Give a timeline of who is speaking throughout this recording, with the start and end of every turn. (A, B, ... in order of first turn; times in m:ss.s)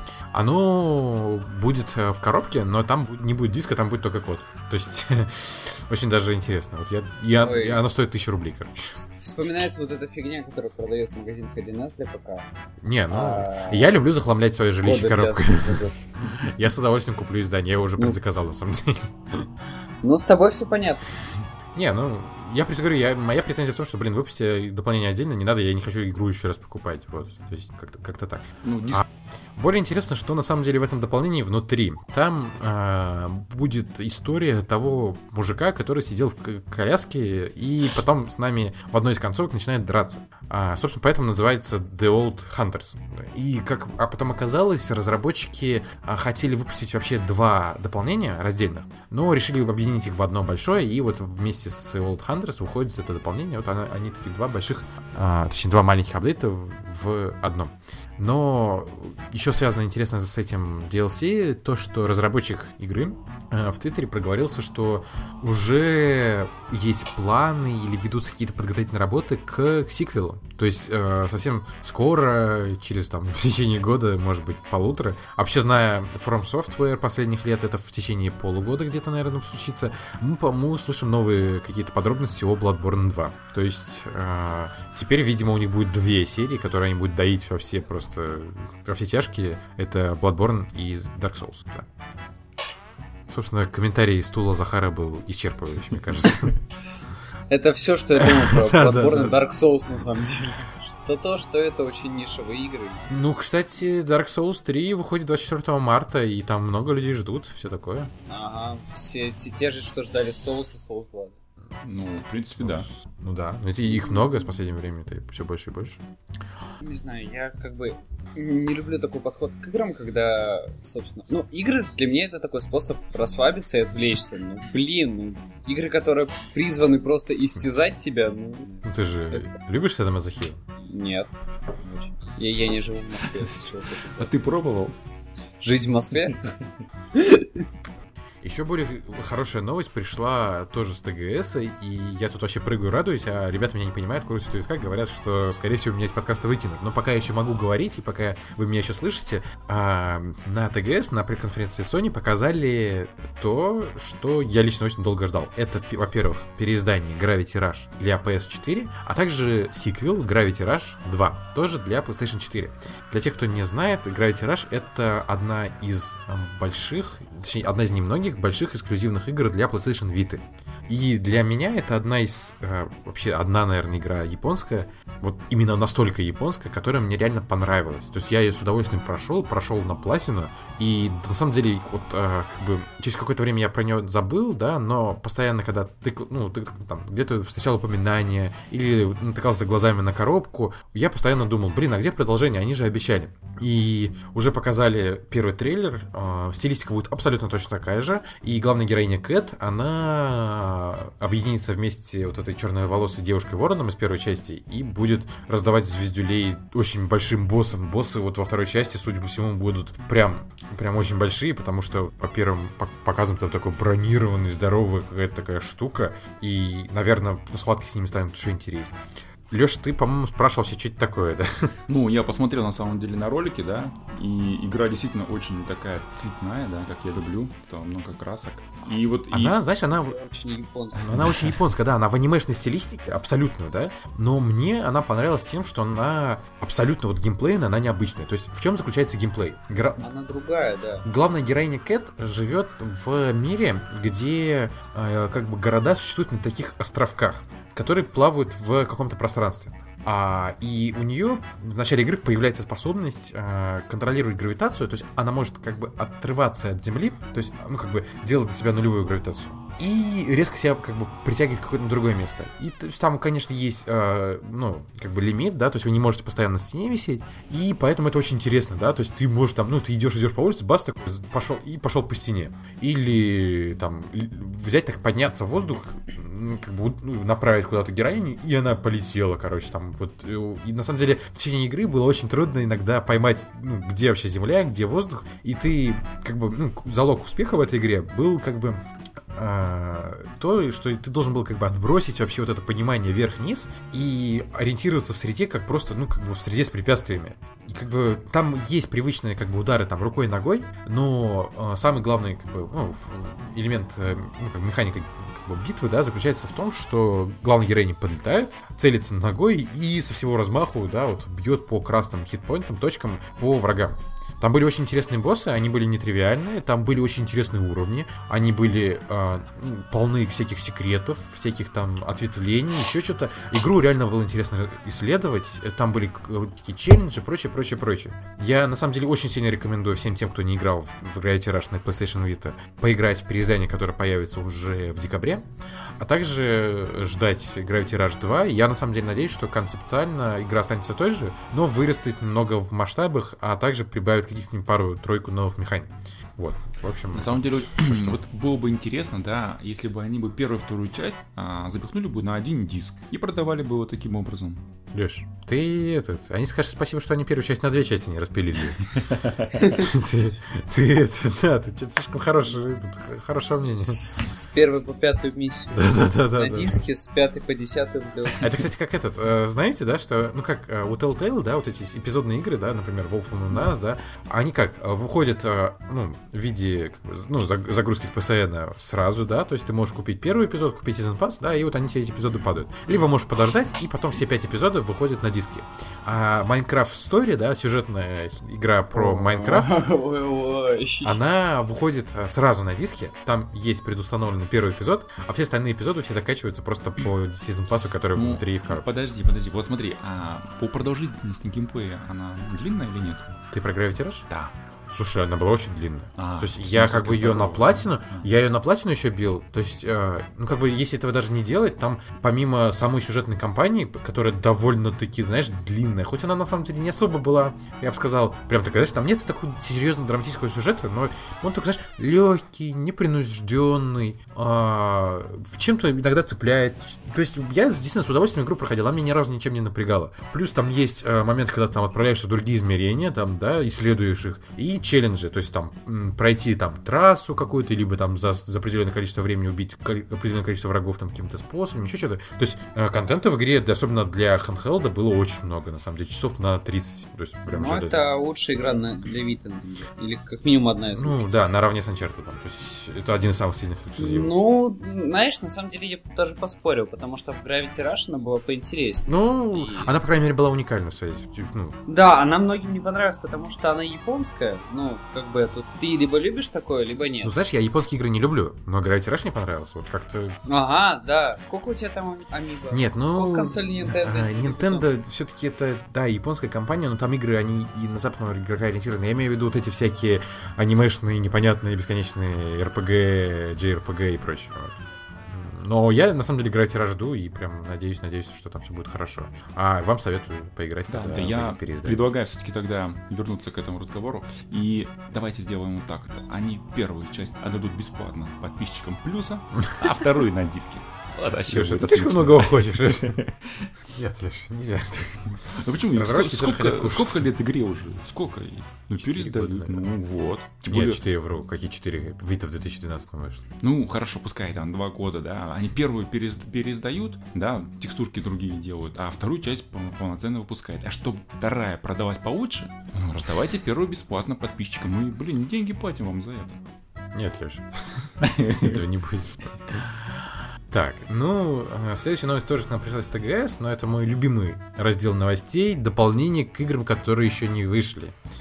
0:00.3-0:08.9 A
0:07.4-0:07.8 B
0:08.9-0:12.4 B
0:12.8-0:19.5 A
0:13.1-0:14.0 B
0:14.8-0:16.0 B
0:20.0-0:21.4 B
0:21.7-0:29.0 A
0:28.6-0:29.0 C
0:29.6-1:31.9 A
1:33.3-1:36.5 A
1:37.5-1:43.1 B
1:38.1-1:39.4 A
1:43.1-1:48.1 A
1:48.2-1:51.4 B
1:51.8-1:52.9 C
1:52.6-1:56.0 A
1:54.0-1:54.4 B
1:56.8-2:09.5 B
2:08.8-2:10.6 A
2:10.8-2:14.3 B
2:14.2-2:14.9 C
2:15.6-2:16.5 B
2:17.1-2:17.6 B
2:18.4-3:41.7 A
3:41.9-3:49.6 C
3:49.3-3:50.2 A
3:49.9-3:51.3 B
3:50.9-4:00.0 A
3:51.2-3:51.5 C
4:00.0-4:01.0 B
4:01.0-4:48.8 A
4:49.4-5:35.4 A
5:36.0-5:48.2 A
5:47.1-5:54.6 C
5:54.9-5:58.8 A
5:59.1-5:59.6 C
5:59.7-6:04.0 A
6:03.6-6:08.5 B
6:05.7-6:06.8 A
6:08.4-6:29.8 A
6:28.9-6:31.2 B
6:31.0-6:38.8 A
6:38.1-6:43.2 C
6:43.5-6:44.3 A
6:44.9-7:28.0 A
6:46.2-6:48.3 C
7:27.5-7:31.2 B
7:30.9-7:34.3 A
7:34.0-7:39.9 B
7:39.1-7:41.8 A
7:41.9-7:47.3 B
7:47.2-7:50.4 A
7:50.4-7:54.9 B
7:52.7-8:12.0 A
8:10.9-8:23.7 C
8:21.5-8:23.2 A
8:23.9-8:27.2 A
8:25.4-8:31.0 C
8:29.0-8:29.9 A
8:30.7-8:33.4 A
8:33.6-8:46.6 C
8:47.1-8:58.2 A
8:48.2-8:48.8 C